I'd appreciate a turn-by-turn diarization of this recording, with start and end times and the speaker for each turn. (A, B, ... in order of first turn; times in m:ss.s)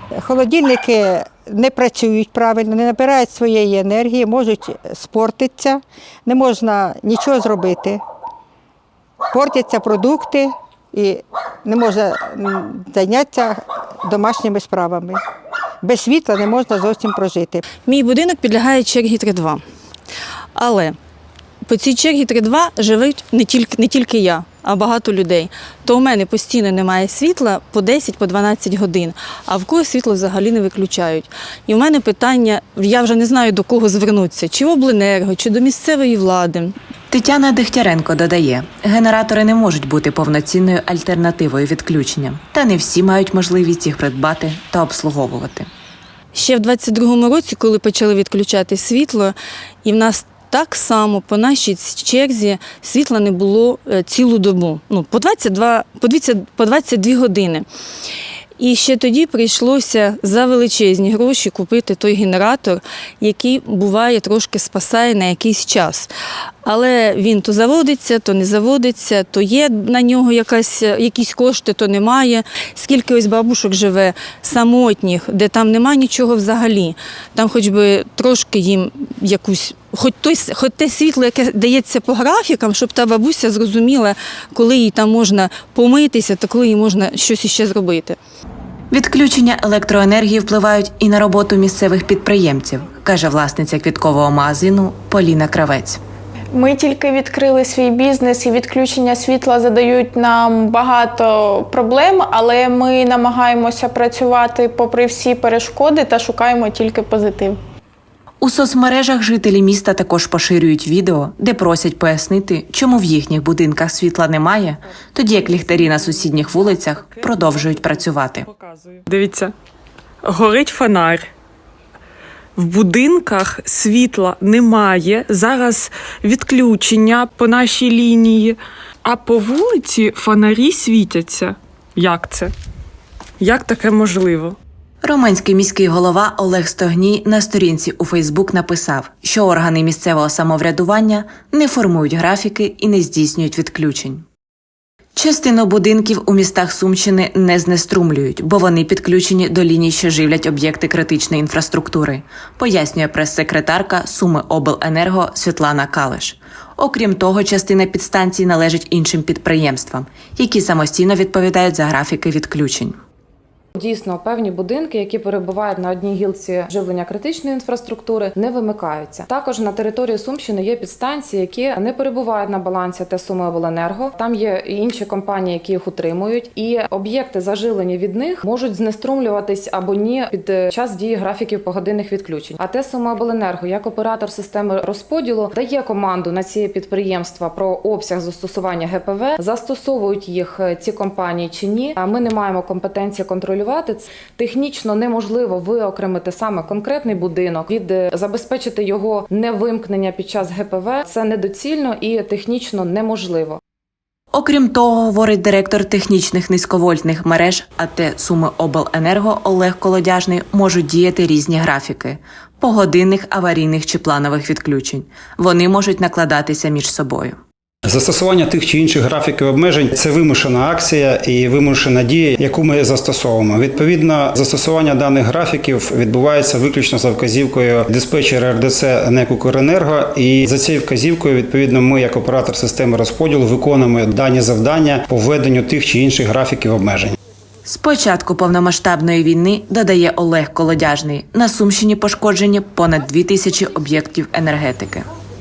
0:00.2-0:08.0 A
0:09.3-0:15.2 A
0:15.8-0:17.6 A
0:17.8-0:19.6 B
0:20.6-0:21.0 B
0:21.7-0:36.7 B
0:37.1-0:45.7 C
0:46.3-0:57.6 B
0:58.6-1:06.1 B
1:06.6-1:28.2 B
1:28.9-1:36.0 C
1:36.6-1:47.6 D
1:48.4-1:58.5 C
1:57.2-1:57.8 E
1:58.4-1:59.5 E
2:00.2-2:01.3 E
2:02.6-2:12.5 E
2:13.4-2:14.6 E
2:15.0-2:24.2 C
2:25.2-2:43.0 C
2:43.8-3:23.6 F
3:24.3-3:37.4 C
3:37.9-3:57.2 G
3:57.6-4:05.1 C